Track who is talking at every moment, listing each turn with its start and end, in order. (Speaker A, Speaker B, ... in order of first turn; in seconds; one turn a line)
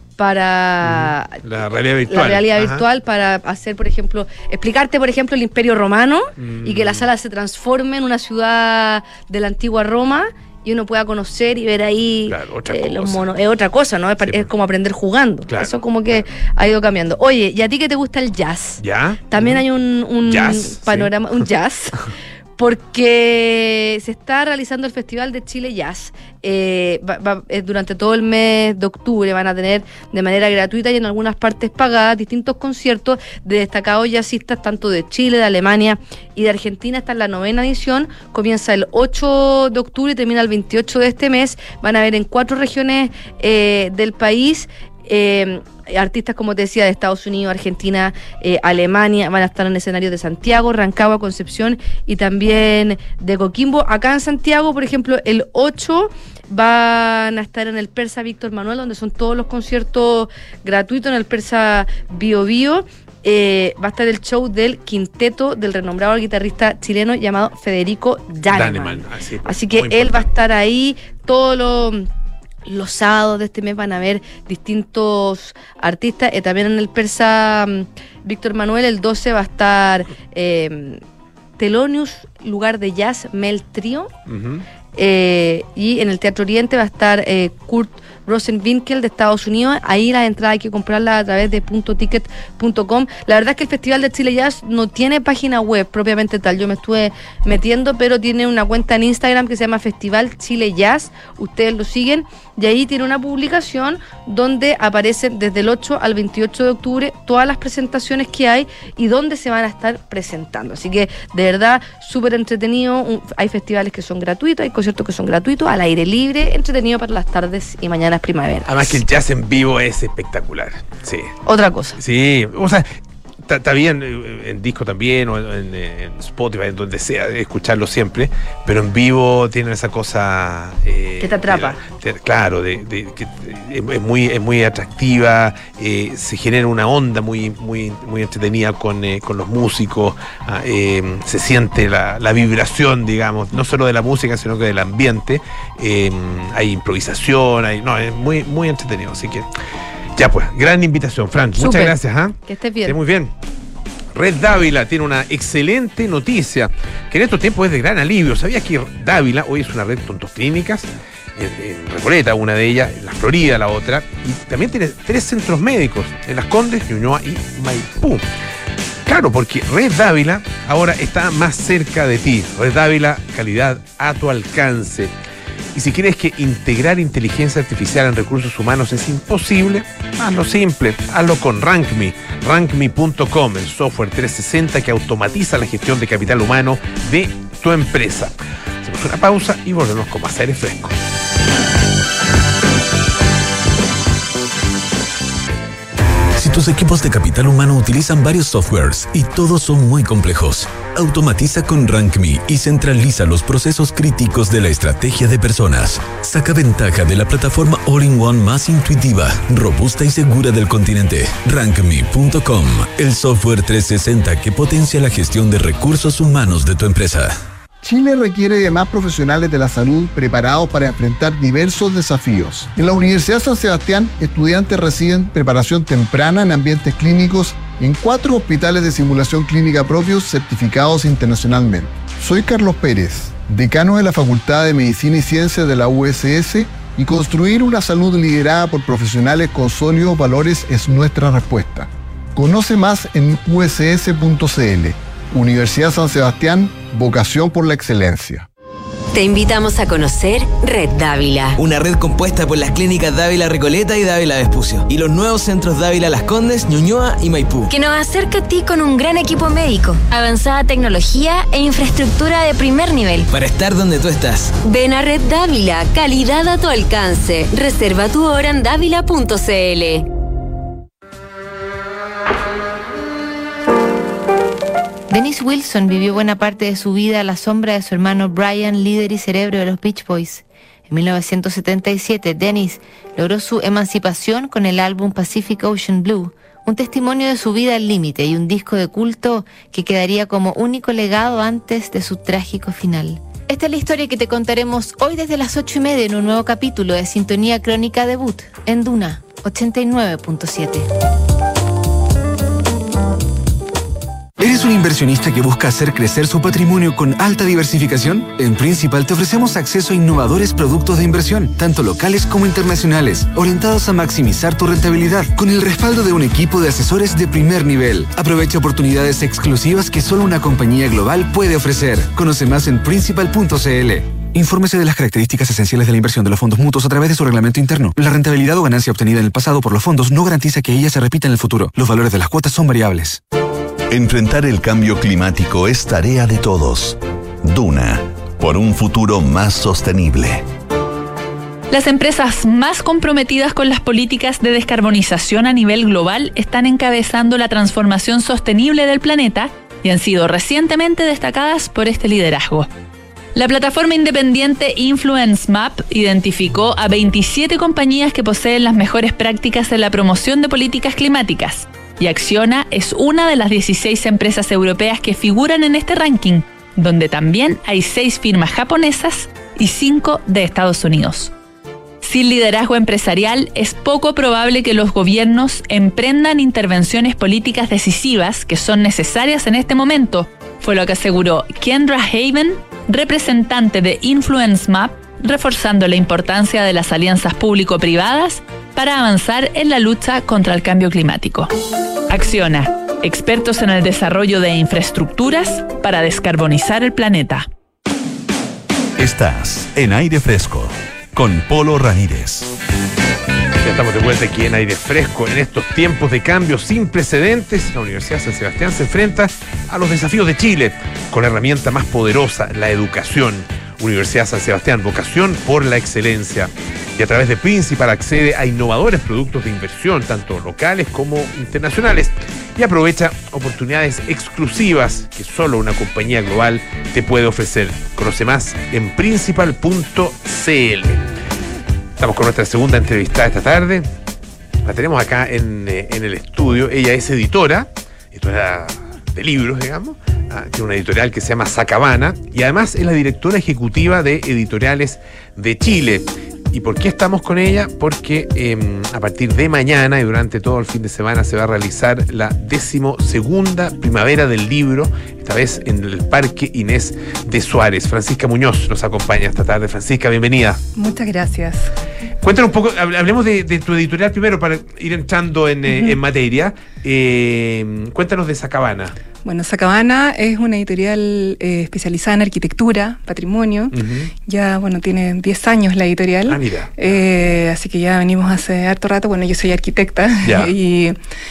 Speaker A: 0.2-1.4
Speaker B: 0.8-2.9
Speaker A: 2.1-72.1
Speaker B: 6.4-7.1
Speaker B: 12.3-13.3
Speaker B: 14.2-14.5
Speaker B: 15.5-16.3
Speaker B: 18.8-19.6
Speaker B: 20.2-21.4
Speaker B: 68.5-70.3
Speaker A: 72.7-81.0
Speaker A: 81.6-84.1
Speaker B: 84.3-84.7
Speaker A: 85.0-119.0
Speaker B: 118.7-121.3
Speaker A: 121.5-122.0
Speaker B: 122.0-122.9
Speaker B: 123.5-149.5
Speaker A: 131.2-131.8
Speaker B: 150.2-153.3
Speaker A: 151.6-151.9
Speaker A: 152.5-153.0
Speaker B: 154.1-168.3
Speaker B: 169.1-175.1
Speaker B: 175.8-190.9
Speaker C: 196.4-217.3
Speaker D: 217.8-248.5
Speaker E: 249.1-251.6
Speaker F: 251.6-257.6
Speaker E: 257.7-263.3
Speaker F: 263.3-264.5
Speaker E: 264.6-270.1
Speaker G: 275.1-300.9
Speaker H: 304.4-333.2
Speaker I: 333.9-340.4
Speaker J: 341.7-352.7
Speaker J: 353.4-371.3
Speaker J: 372.0-391.5
Speaker J: 392.1-397.5
Speaker I: 399.0-402.5
Speaker B: 403.6-431.0
Speaker B: 432.0-433.9
Speaker B: 434.6-460.6
Speaker K: 460.8-461.7
Speaker B: 462.2-468.9
Speaker K: 465.7-466.0
Speaker K: 469.2-481.0
Speaker B: 473.7-474.1
Speaker B: 476.3-477.0
Speaker B: 480.2-480.5